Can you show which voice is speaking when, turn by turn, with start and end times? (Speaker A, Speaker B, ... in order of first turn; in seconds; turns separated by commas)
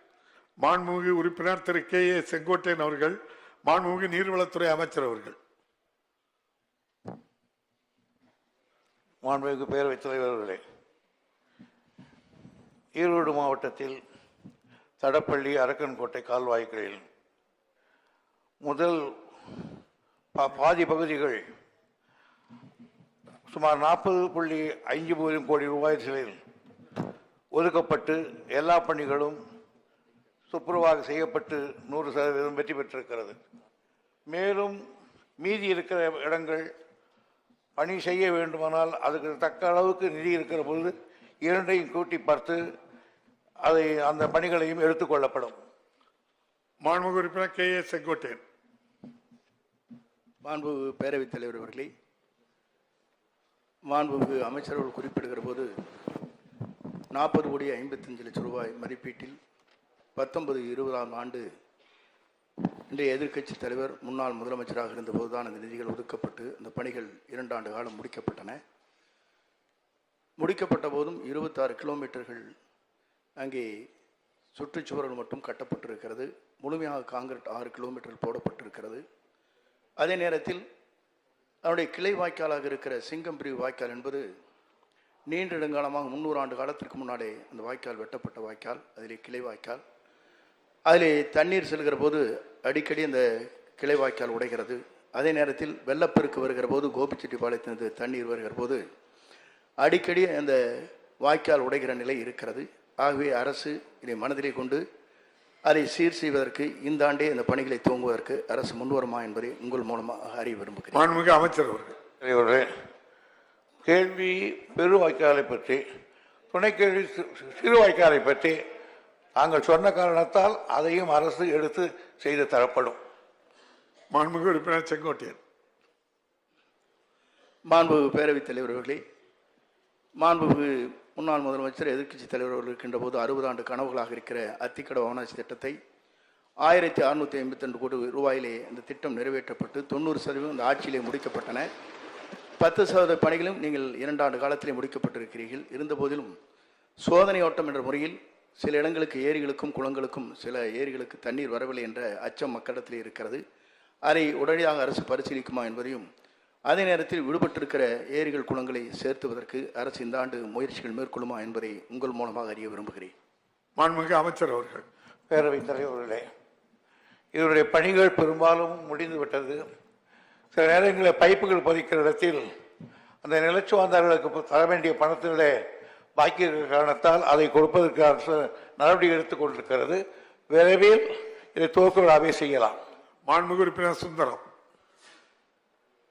Speaker A: 0.6-5.4, Speaker B: 9.2-10.6, Speaker B: 13.0-14.0, Speaker B: 15.0-17.0, Speaker B: 18.6-19.1, Speaker B: 20.4-21.4, Speaker B: 23.5-26.4, Speaker B: 27.6-29.4, Speaker B: 30.5-33.4, Speaker B: 34.3-34.8, Speaker B: 35.4-36.7, Speaker B: 37.8-40.9, Speaker B: 41.4-42.6, Speaker B: 43.6-45.6, Speaker A: 46.8-48.4, Speaker C: 50.4-51.9, Speaker C: 53.9-55.7, Speaker C: 57.1-59.4, Speaker C: 60.2-61.4, Speaker C: 62.9-68.6, Speaker C: 70.4-72.4, Speaker C: 73.4-73.7, Speaker C: 74.6-79.0, Speaker C: 80.0-80.6, Speaker C: 81.6-84.2, Speaker C: 85.3-89.8, Speaker C: 90.9-93.2, Speaker C: 93.8-98.8, Speaker C: 99.8-100.6, Speaker C: 101.2-104.8, Speaker C: 105.7-111.1, Speaker A: 110.9-112.0, Speaker B: 112.2-112.7, Speaker B: 113.9-115.8, Speaker B: 116.5-118.6, Speaker B: 119.4-123.0, Speaker A: 124.1-125.4, Speaker C: 127.7-129.0, Speaker C: 130.2-135.8, Speaker C: 136.6-141.7, Speaker C: 142.6-146.3, Speaker C: 147.1-153.4, Speaker C: 154.1-156.1, Speaker C: 156.7-163.1, Speaker A: 163.8-164.8, Speaker B: 165.3-166.2, Speaker B: 167.3-169.6, Speaker B: 170.5-172.5, Speaker B: 173.2-175.6, Speaker B: 176.2-182.8, Speaker A: 183.3-184.4